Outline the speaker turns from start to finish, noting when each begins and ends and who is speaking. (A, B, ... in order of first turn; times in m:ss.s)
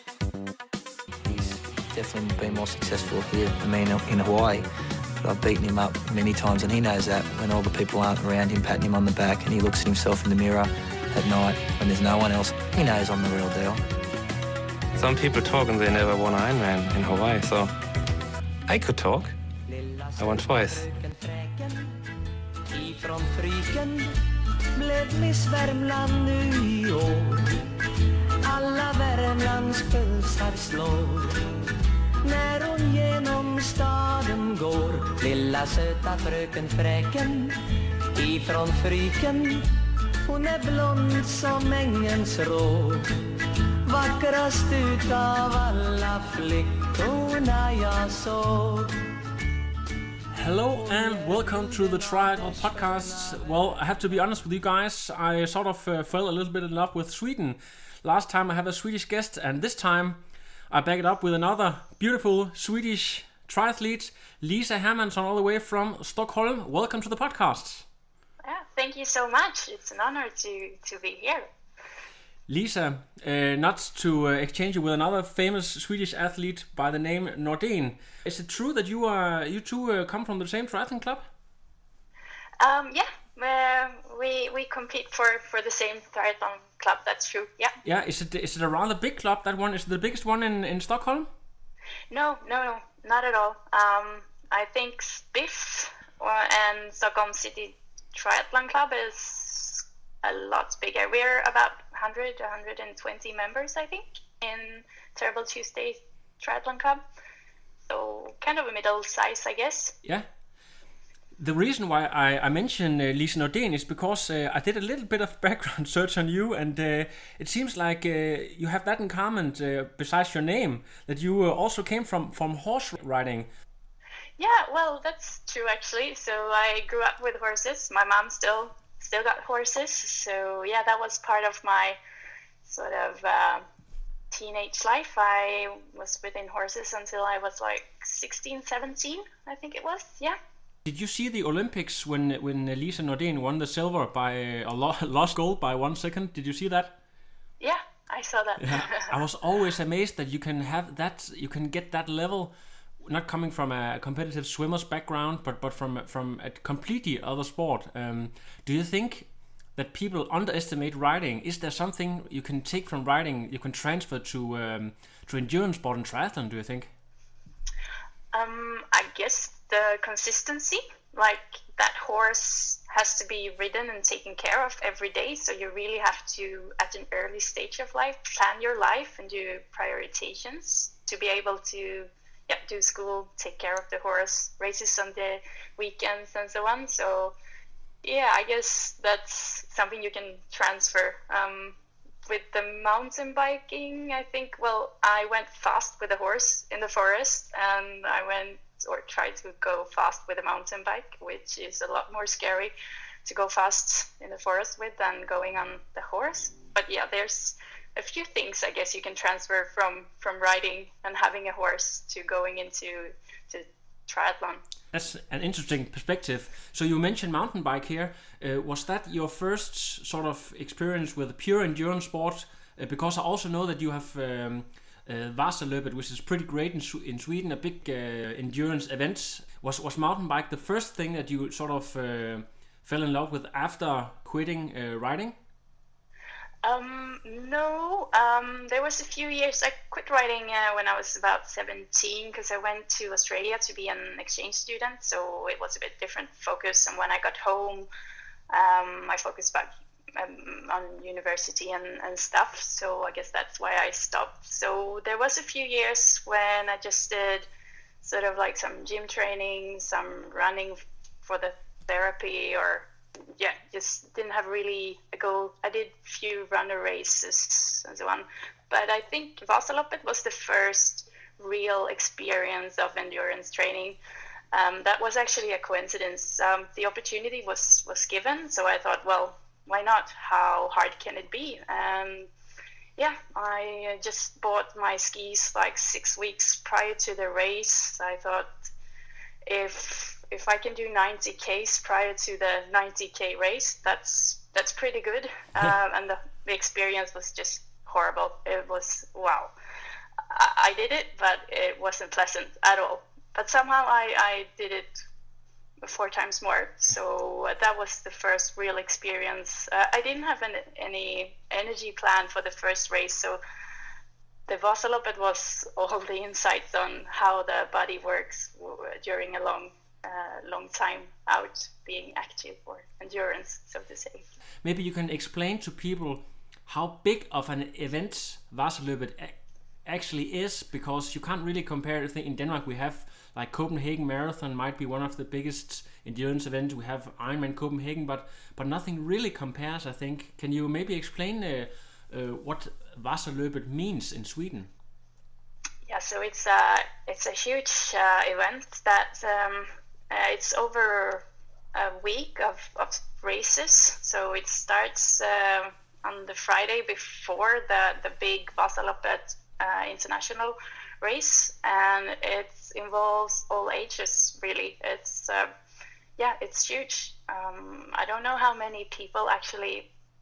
0:01.2-0:04.6 A
0:05.2-0:13.8 A
0:14.9-0:17.7 B
0:18.7-0:19.3 B
0:19.7-0:22.0 C
0:20.2-0:20.9 B
0:22.7-0:24.1 C
0:24.7-0:27.9 C
0:28.4-0:31.5 C
0:32.2-0:48.9 C
0:50.3-1:07.8 D
0:50.8-0:54.2 C
1:08.4-1:11.5 E
1:12.5-1:21.3 D
1:22.6-1:27.7 E
1:27.8-1:31.3 D
1:32.1-1:47.0 E
1:47.9-1:49.9 E
1:51.4-2:03.5 D
2:04.4-2:12.0 E
2:12.6-2:13.6 E
2:14.3-2:20.4 E
2:20.8-2:26.9 D
2:27.6-2:29.1 E
2:28.6-2:46.9 D
2:48.3-3:07.3 E
3:08.0-3:22.7 E
3:23.2-3:34.6 E
3:34.9-3:55.4 D
3:56.6-4:07.9 E
4:08.5-4:17.4 E
4:18.0-4:34.0 E
4:34.5-4:42.3 E
4:43.0-4:48.5 E
4:49.4-4:59.5 E
5:00.3-5:04.9 E
5:05.8-5:13.4 E
5:14.5-5:24.2 E
5:24.6-5:44.7 D
5:45.8-6:05.5 E
6:06.2-6:09.9 E